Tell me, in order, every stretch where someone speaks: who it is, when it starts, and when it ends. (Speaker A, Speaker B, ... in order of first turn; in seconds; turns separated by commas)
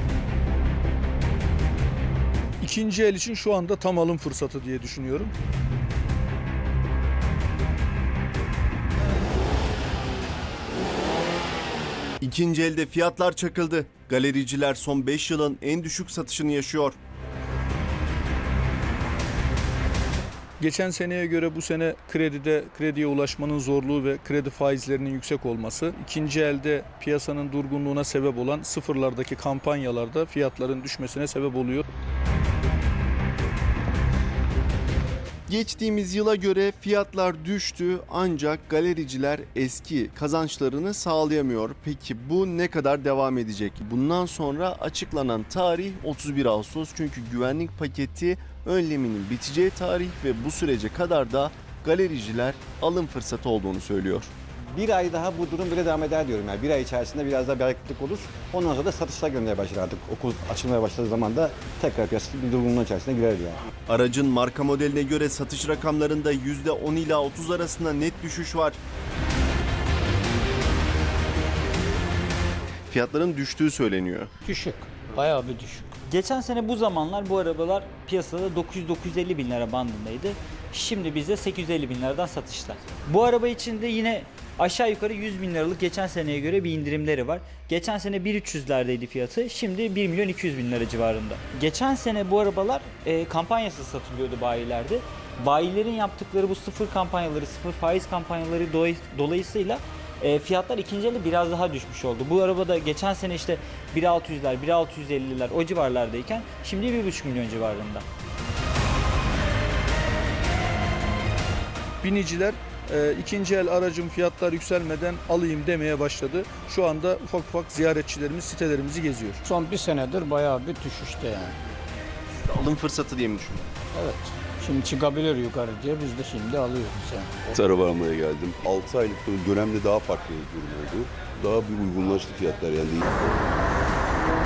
Speaker A: 2.6-5.3, Speaker B: 12.2-17.0, Speaker A: 20.6-31.9, Speaker B: 35.5-54.3, Speaker C: 54.7-63.6, Speaker B: 63.9-68.8, Speaker B: 72.9-74.3, Speaker D: 74.4-76.0, Speaker E: 76.1-108.0, Speaker A: 112.0-119.4, Speaker D: 119.4-121.5, Speaker B: 122.5-123.7, Speaker D: 123.9-127.3, Speaker F: 127.5-133.1